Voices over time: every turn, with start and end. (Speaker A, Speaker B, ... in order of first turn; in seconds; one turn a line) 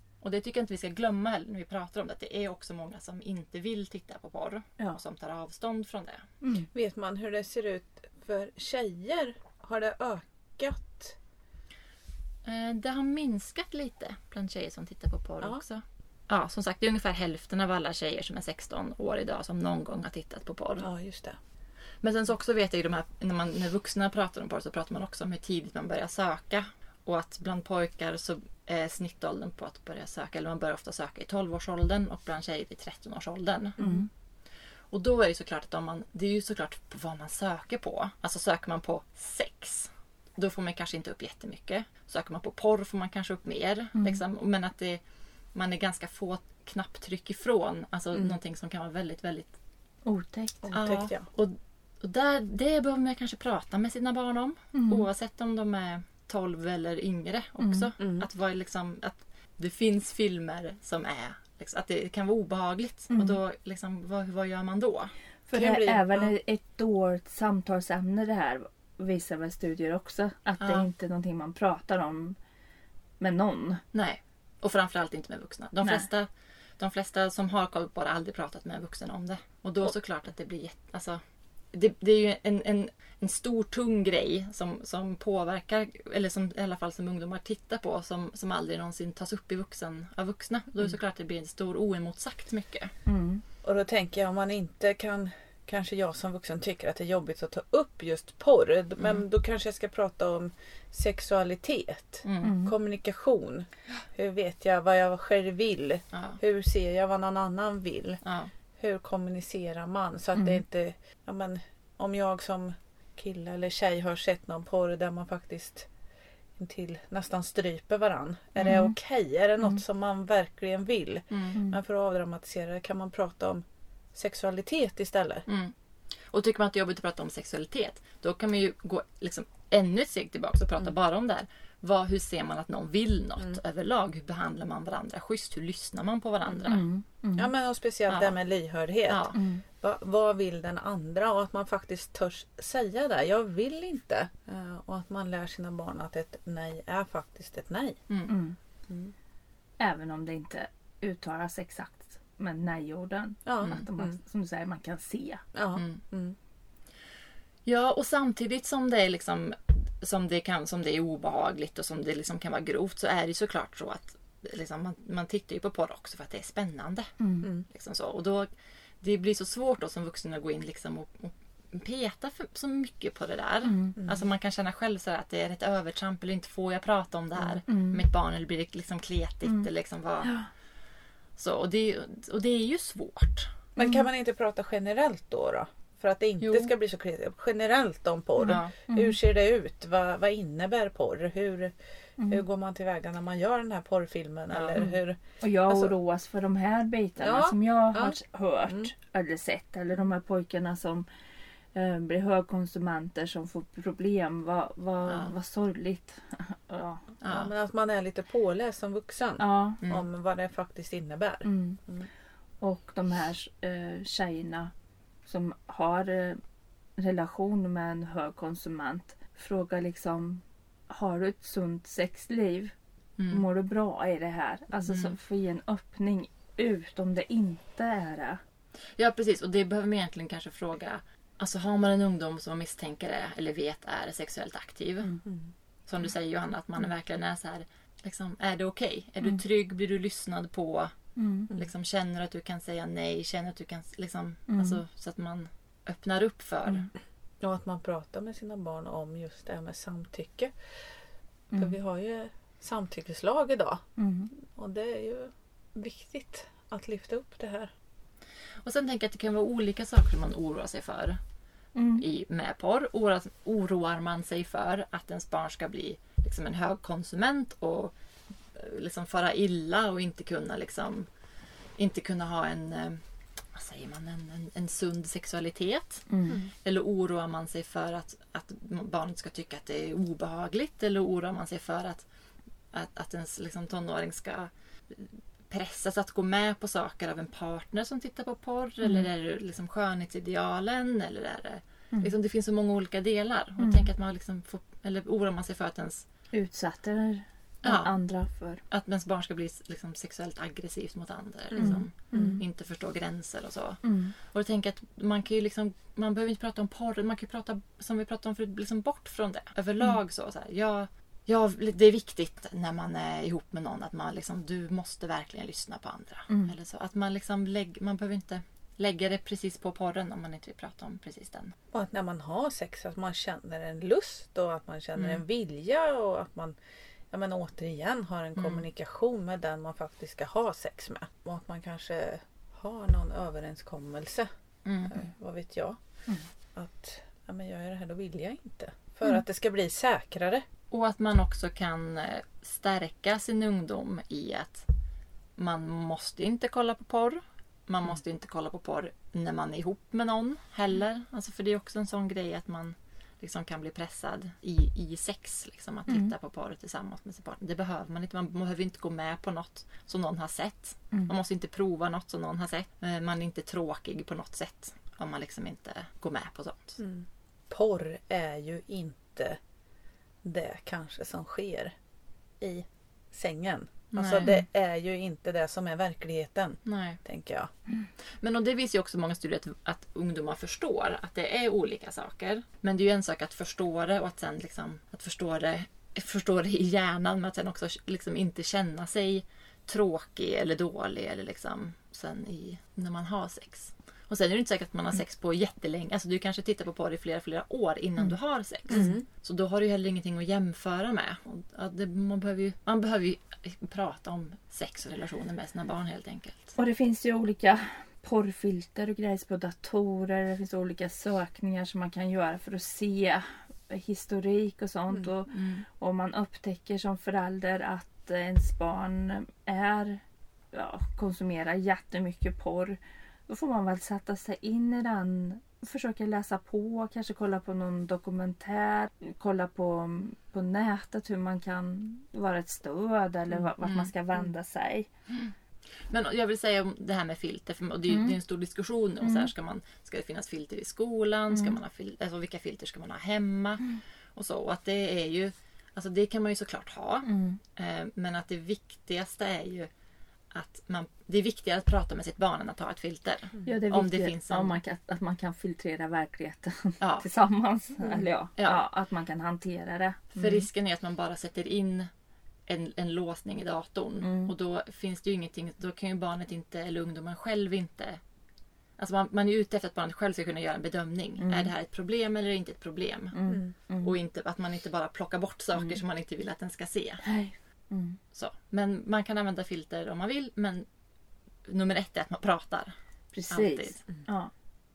Speaker A: 0.2-6.2
Speaker B: 6.4-6.7
Speaker C: 6.7-11.2
Speaker A: 12.4-20.9
Speaker C: 20.8-21.4
Speaker A: 22.0-33.9
Speaker B: 33.8-34.1
Speaker A: 34.9-45.0
Speaker B: 44.0-44.2
Speaker A: 45.5-49.6
Speaker B: 50.0-50.8
Speaker C: 50.6-51.3
Speaker A: 50.7-65.1
Speaker B: 54.7-55.1
Speaker B: 57.6-57.9
Speaker C: 58.0-58.3
Speaker B: 63.1-63.4
Speaker B: 65.5-72.4
Speaker C: 65.5-66.3
Speaker A: 70.6-70.9
Speaker B: 73.2-73.8
Speaker A: 73.9-81.2
Speaker B: 75.8-76.1
Speaker A: 81.7-92.9
Speaker B: 93.1-93.4
Speaker C: 93.6-108.2
Speaker A: 102.2-102.5
Speaker B: 102.4-102.8
Speaker A: 106.1-106.4
Speaker A: 108.2-108.5
Speaker C: 108.8-115.9
Speaker B: 110.3-110.6
Speaker C: 116.6-123.6
Speaker B: 118.6-119.0
Speaker A: 121.3-121.6
Speaker C: 124.2-125.5
Speaker A: 125.5-125.7
Speaker A: 126.3-136.9
Speaker B: 136.7-137.5
Speaker C: 137.4-148.0
Speaker A: 138.1-138.4
Speaker A: 139.1-139.4
Speaker B: 139.3-139.7
Speaker A: 148.1-148.4
Speaker B: 148.3-148.6
Speaker B: 149.8-155.4
Speaker C: 153.5-154.2
Speaker C: 155.6-156.4
Speaker A: 155.8-156.0
Speaker A: 157.7-167.1
Speaker B: 167.2-167.5
Speaker A: 167.7-168.5
Speaker A: 169.0-180.4
Speaker B: 173.6-174.0
Speaker C: 174.0-174.2
Speaker B: 177.7-178.0
Speaker B: 180.2-180.5
Speaker A: 181.4-183.5
Speaker C: 183.8-191.7
Speaker B: 183.8-184.0
Speaker A: 186.4-186.7
Speaker B: 188.4-189.2
Speaker A: 188.4-188.7
Speaker B: 192.2-192.4
Speaker C: 192.3-195.9
Speaker A: 194.5-194.8
Speaker B: 194.8-201.1
Speaker C: 197.2-198.9
Speaker B: 201.7-207.1
Speaker A: 205.1-205.3
Speaker A: 207.2-207.5
Speaker C: 207.3-212.1
Speaker B: 209.4-209.8
Speaker B: 211.4-211.8
Speaker B: 212.6-214.7
Speaker B: 215.3-216.4
Speaker B: 217.0-222.7
Speaker A: 223.2-223.4
Speaker B: 223.3-228.4
Speaker A: 224.7-225.2
Speaker A: 229.0-235.1
Speaker C: 235.2-235.5
Speaker A: 235.9-240.9
Speaker B: 241.2-241.5
Speaker A: 241.5-246.9
Speaker B: 244.5-244.8
Speaker C: 247.4-250.5
Speaker B: 251.5-251.8
Speaker C: 251.6-257.7
Speaker B: 254.0-254.3
Speaker A: 258.6-261.2
Speaker B: 261.8-262.1
Speaker A: 262.0-267.9
Speaker A: 268.5-271.1
Speaker A: 271.8-273.0
Speaker A: 273.5-282.1
Speaker B: 276.1-276.4
Speaker A: 282.7-296.1
Speaker B: 288.8-289.1
Speaker B: 293.6-293.9
Speaker B: 296.3-298.6
Speaker A: 297.6-297.9
Speaker A: 298.7-321.5
Speaker C: 301.5-301.8
Speaker B: 301.6-302.4
Speaker B: 303.8-304.1
Speaker B: 316.3-316.6
Speaker C: 321.7-326.6
Speaker A: 325.0-325.2
Speaker C: 327.1-334.3
Speaker A: 328.4-328.6
Speaker A: 334.6-335.0
Speaker C: 334.9-335.8
Speaker C: 336.6-340.4
Speaker A: 340.7-344.7
Speaker A: 345.4-366.8
Speaker B: 355.9-356.1
Speaker C: 366.8-369.4
Speaker C: 370.2-371.7
Speaker C: 372.4-377.5
Speaker A: 373.9-374.4
Speaker A: 376.6-377.0
Speaker A: 378.2-406.5
Speaker C: 398.7-399.1
Speaker B: 406.6-434.9
Speaker A: 415.3-415.6
Speaker A: 433.6-433.9
Speaker A: 435.1-435.3
Speaker A: 435.9-449.7
Speaker B: 437.9-438.2
Speaker B: 439.0-439.3
Speaker B: 441.3-441.6
Speaker B: 447.1-447.4
Speaker A: 450.3-454.6
Speaker B: 453.4-460.2
Speaker A: 456.8-457.1
Speaker A: 457.9-458.6
Speaker A: 460.1-461.9
Speaker A: 462.5-468.0
Speaker B: 464.0-464.3
Speaker A: 468.8-473.2
Speaker B: 471.2-471.5
Speaker B: 473.1-474.0
Speaker C: 473.3-473.5
Speaker A: 473.8-477.0
Speaker B: 475.6-475.8
Speaker B: 477.0-478.0
Speaker A: 478.1-480.7
Speaker A: 481.5-482.7
Speaker B: 483.1-484.3
Speaker A: 483.3-483.8